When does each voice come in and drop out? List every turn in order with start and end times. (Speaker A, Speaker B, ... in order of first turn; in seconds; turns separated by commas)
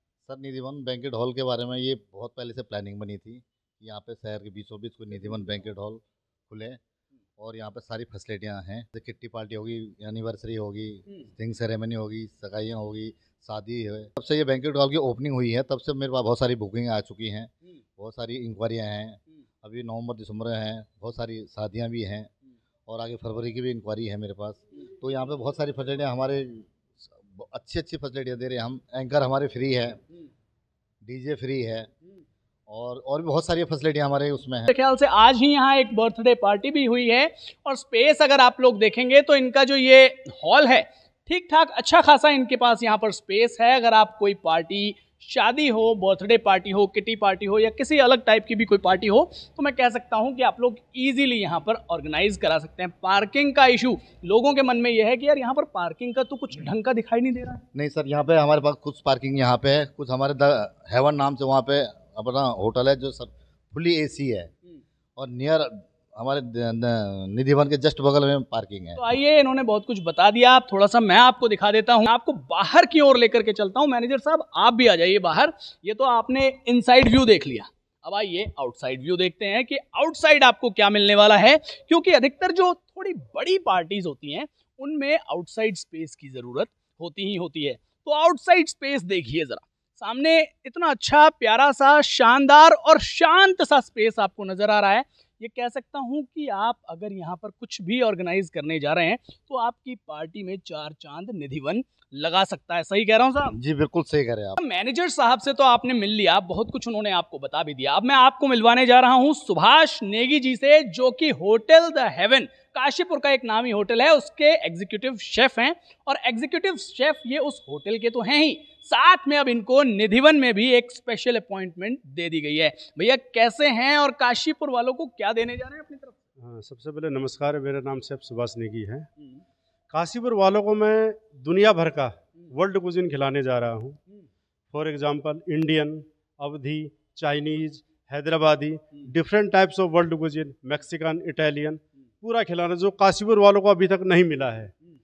Speaker A: 0.2-6.8, Speaker A: 7.4-22.3, Speaker A: 22.9-30.0, Speaker A: 31.0-31.9, Speaker A: 32.7-34.7, Speaker B: 34.7-57.6, Speaker A: 57.7-64.5, Speaker A: 65.2-69.0, Speaker B: 69.0-103.5, Speaker A: 103.5-104.6, Speaker B: 104.6-126.2, Speaker C: 126.4-129.1, Speaker C: 129.9-134.0, Speaker C: 134.7-144.7